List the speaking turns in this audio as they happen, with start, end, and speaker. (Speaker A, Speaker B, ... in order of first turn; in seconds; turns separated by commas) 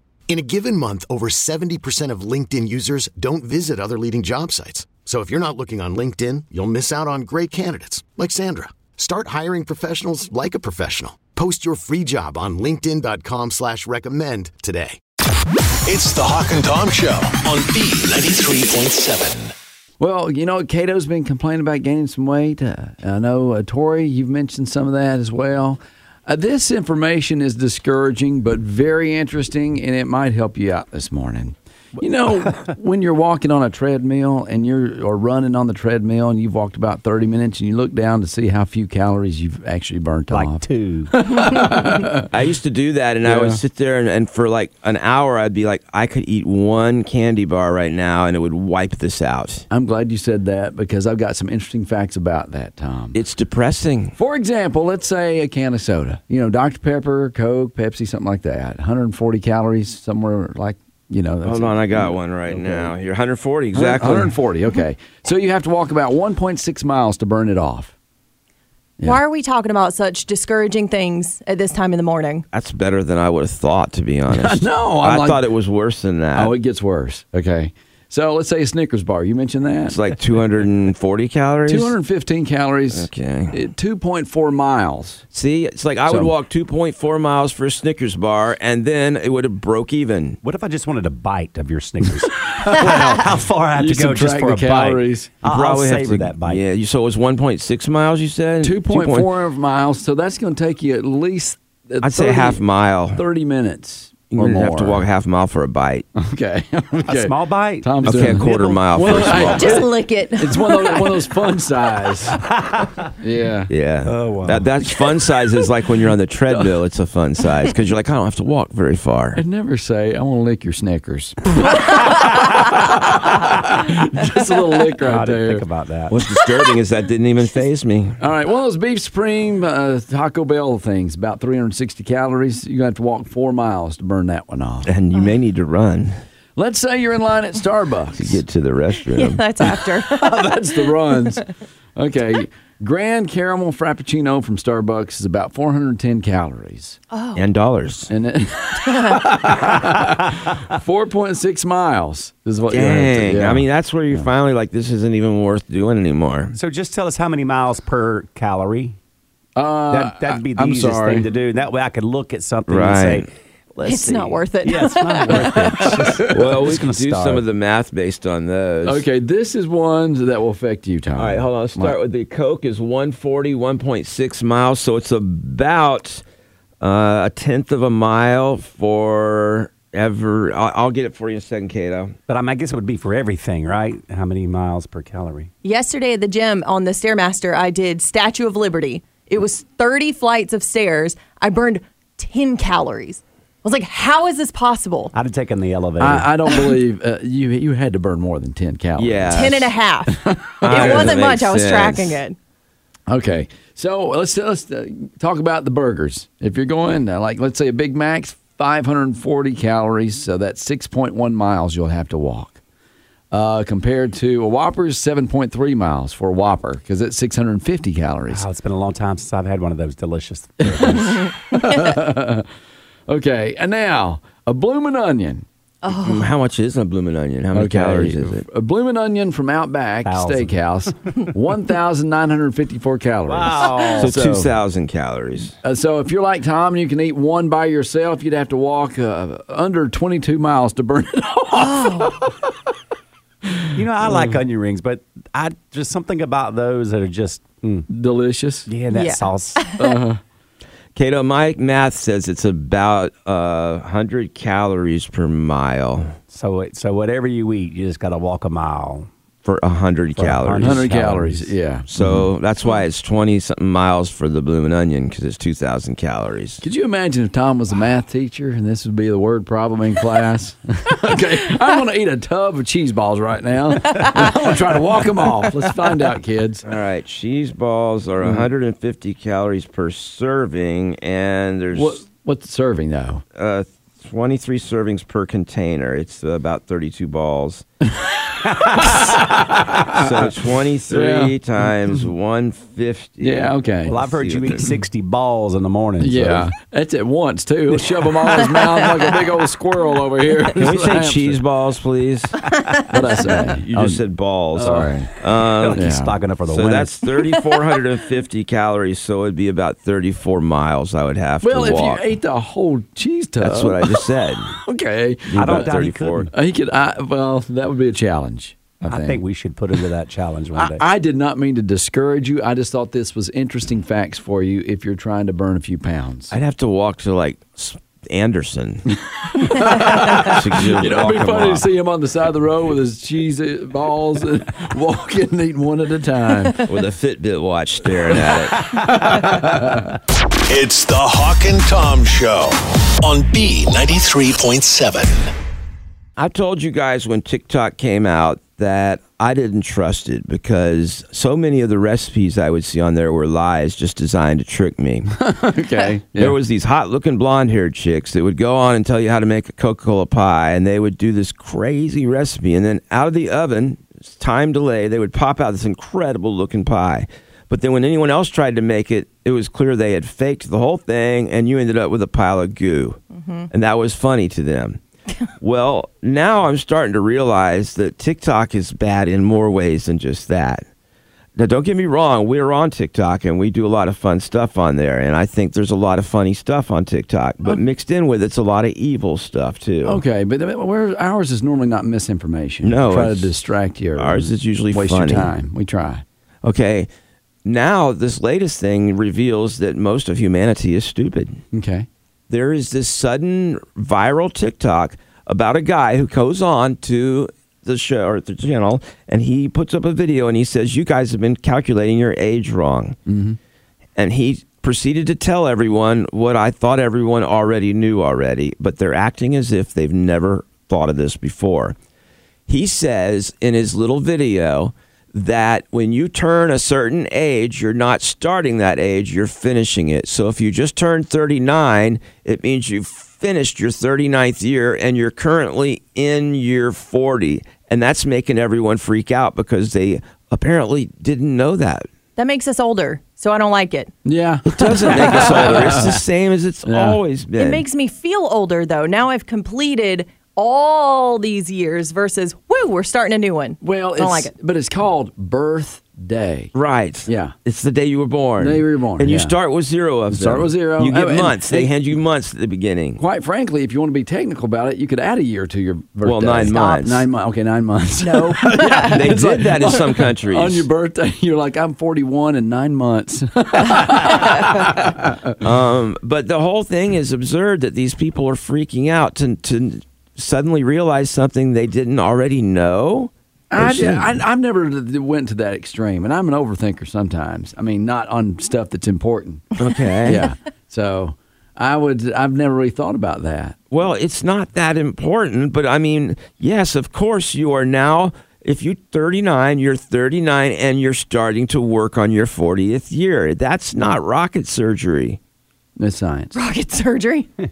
Speaker A: 0.3-15.0, Speaker B: 15.8-19.5, Speaker C: 20.0-42.3, Speaker D: 40.3-41.1, Speaker E: 42.3-49.6, Speaker C: 43.2-43.6, Speaker C: 49.7-53.2, Speaker E: 53.1-54.1, Speaker C: 54.1-62.9, Speaker E: 61.4-64.3, Speaker C: 63.7-67.9, Speaker F: 69.0-72.4, Speaker E: 72.5-76.5, Speaker C: 74.3-75.4, Speaker C: 76.3-80.0, Speaker E: 79.9-81.9, Speaker C: 81.7-85.2, Speaker E: 82.9-83.5, Speaker E: 85.3-90.4, Speaker C: 86.1-86.3, Speaker D: 90.4-96.6, Speaker C: 93.8-95.3, Speaker E: 95.5-99.3, Speaker C: 98.6-102.6, Speaker E: 102.0-103.2, Speaker C: 103.1-105.0, Speaker E: 104.3-106.0, Speaker C: 106.2-112.5, Speaker D: 107.1-109.6, Speaker E: 108.0-109.8, Speaker F: 109.4-111.2, Speaker C: 113.2-113.7, Speaker E: 113.7-119.4, Speaker D: 114.0-114.7, Speaker C: 119.3-125.6, Speaker D: 125.0-126.1, Speaker E: 126.1-128.2, Speaker C: 128.2-134.9, Speaker E: 134.8-136.2, Speaker C: 136.6-138.4, Speaker E: 138.2-139.4, Speaker F: 139.1-140.5, Speaker C: 140.1-147.0, Speaker F: 147.1-147.4, Speaker E: 147.3-148.1, Speaker C: 148.1-154.3, Speaker F: 148.9-149.2, Speaker E: 152.7-156.5, Speaker D: 156.5-159.0, Speaker C: 159.6-161.3, Speaker D: 159.9-167.4, Speaker E: 162.7-163.3, Speaker F: 163.8-166.1, Speaker E: 166.3-169.0, Speaker C: 168.8-172.0, Speaker E: 171.2-176.2, Speaker E: 176.8-182.1, Speaker D: 182.3-185.5, Speaker F: 185.6-195.1, Speaker D: 195.1-196.3, Speaker C: 196.0-199.5, Speaker E: 199.0-199.7, Speaker F: 199.3-202.4, Speaker C: 200.2-201.2, Speaker E: 200.6-202.2, Speaker C: 203.1-212.6, Speaker C: 213.3-218.4, Speaker D: 218.3-221.2, Speaker C: 220.6-222.4, Speaker C: 223.1-225.4, Speaker F: 225.8-226.2, Speaker E: 225.9-228.4, Speaker C: 227.5-234.5, Speaker D: 230.1-230.5, Speaker D: 233.3-234.1, Speaker E: 234.0-235.5, Speaker C: 235.6-242.3, Speaker F: 241.6-242.1, Speaker C: 243.6-244.3, Speaker D: 243.7-247.9, Speaker C: 247.9-248.7, Speaker D: 248.7-249.7, Speaker F: 248.9-249.9, Speaker C: 249.8-250.2, Speaker E: 250.9-256.1, Speaker D: 256.3-259.1, Speaker E: 259.4-260.9, Speaker D: 260.1-261.5, Speaker C: 260.6-262.2, Speaker E: 261.9-266.6, Speaker C: 266.6-276.6, Speaker E: 276.6-282.0, Speaker C: 281.7-283.2, Speaker E: 283.3-287.6, Speaker C: 287.9-288.1, Speaker C: 288.7-290.1, Speaker E: 288.9-289.2, Speaker E: 289.9-294.6, Speaker C: 290.9-291.3, Speaker C: 293.2-294.0, Speaker D: 293.9-296.5, Speaker C: 296.0-301.4, Speaker E: 300.5-302.4, Speaker C: 302.9-304.0, Speaker E: 303.2-305.9, Speaker C: 304.5-305.1, Speaker D: 304.6-304.9, Speaker D: 305.6-306.9, Speaker C: 305.7-306.2, Speaker E: 306.5-312.0, Speaker C: 311.4-315.7, Speaker E: 313.4-314.5, Speaker E: 315.3-316.3, Speaker D: 315.3-316.3, Speaker C: 316.3-319.2, Speaker D: 318.8-320.8, Speaker C: 320.5-326.3, Speaker E: 326.3-328.9, Speaker C: 328.9-336.6, Speaker E: 329.6-331.6, Speaker E: 336.7-338.8, Speaker C: 338.7-339.9, Speaker B: 340.5-345.3, Speaker E: 346.2-355.1, Speaker C: 355.1-356.4, Speaker E: 356.1-373.0, Speaker F: 373.1-373.5, Speaker E: 373.5-374.8, Speaker E: 375.4-380.6, Speaker E: 381.4-390.0, Speaker C: 389.8-396.0, Speaker E: 392.6-393.3, Speaker E: 393.9-395.3, Speaker E: 396.4-396.9, Speaker E: 397.4-401.4, Speaker C: 401.5-401.9, Speaker E: 402.3-413.0, Speaker C: 413.1-413.4, Speaker E: 414.0-421.7, Speaker E: 422.5-441.9, Speaker F: 442.1-443.9, Speaker C: 444.0-446.0, Speaker E: 444.5-447.6, Speaker C: 446.6-447.0, Speaker F: 447.4-454.3, Speaker C: 453.6-456.5, Speaker E: 456.5-463.0, Speaker C: 457.1-457.3, Speaker C: 458.4-459.3, Speaker C: 460.1-461.7, Speaker C: 463.0-475.4, Speaker E: 466.0-467.1, Speaker F: 468.0-469.0, Speaker E: 468.8-470.6, Speaker E: 475.4-484.1, Speaker C: 483.5-489.5, Speaker E: 489.6-490.3, Speaker C: 490.0-493.6, Speaker E: 493.7-505.2, Speaker C: 505.8-506.4, Speaker F: 506.3-507.3